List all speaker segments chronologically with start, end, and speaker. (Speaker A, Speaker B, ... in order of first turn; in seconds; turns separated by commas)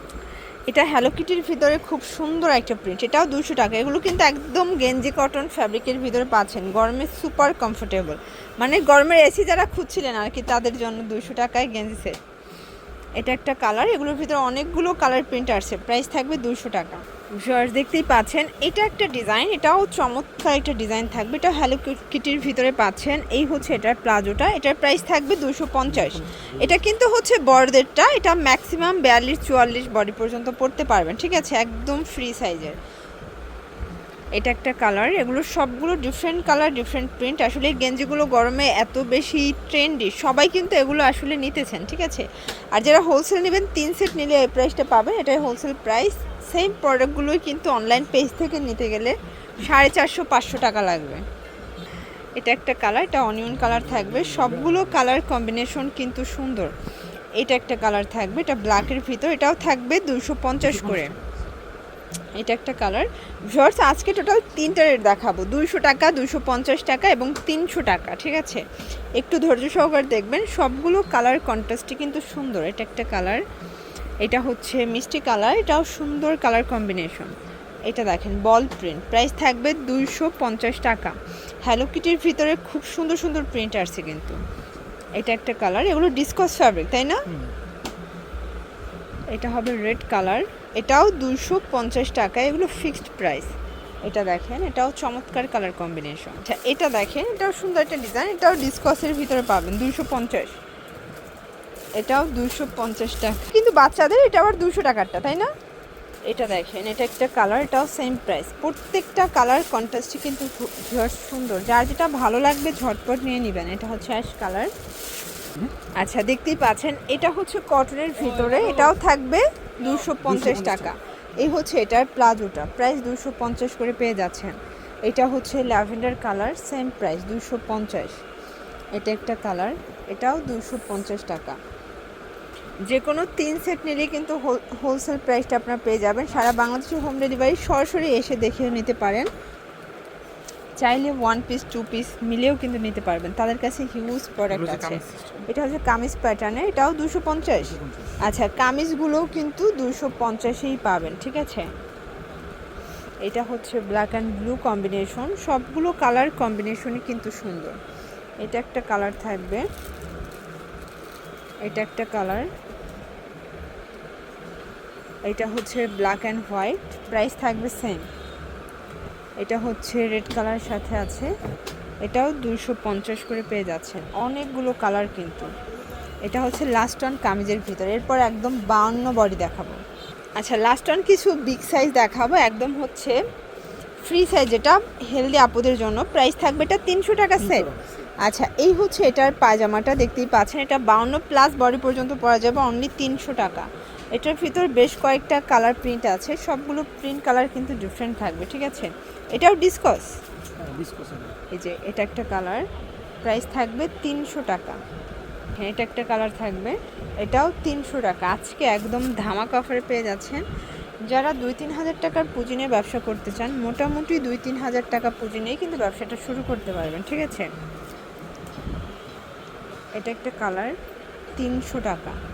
Speaker A: 0.7-12.2, Speaker A: 13.2-32.8, Speaker B: 25.9-26.7, Speaker A: 34.4-51.2, Speaker A: 52.4-56.7, Speaker B: 53.6-55.0, Speaker A: 57.4-61.1, Speaker A: 62.4-68.6, Speaker A: 69.2-73.4, Speaker A: 74.2-77.3, Speaker A: 77.9-84.4, Speaker A: 85.2-87.3, Speaker A: 89.3-93.5, Speaker A: 94.0-100.5, Speaker A: 102.0-105.5, Speaker A: 106.3-114.7, Speaker A: 116.0-128.2, Speaker B: 119.8-120.9, Speaker A: 128.9-131.6, Speaker A: 132.9-139.3, Speaker A: 140.8-151.7, Speaker B: 144.5-145.3, Speaker B: 147.6-148.2, Speaker A: 153.2-157.8, Speaker A: 158.4-159.7, Speaker A: 161.6-162.5, Speaker A: 165.2-168.1, Speaker A: 169.4-171.3, Speaker A: 172.0-175.5, Speaker A: 176.2-179.8, Speaker A: 180.3-183.2, Speaker A: 184.0-187.7, Speaker B: 187.5-187.8, Speaker A: 188.2-200.1, Speaker B: 200.6-201.3, Speaker A: 201.5-202.7, Speaker A: 203.2-204.8, Speaker A: 205.6-210.4, Speaker A: 211.1-217.5, Speaker A: 219.9-220.8, Speaker A: 221.4-222.2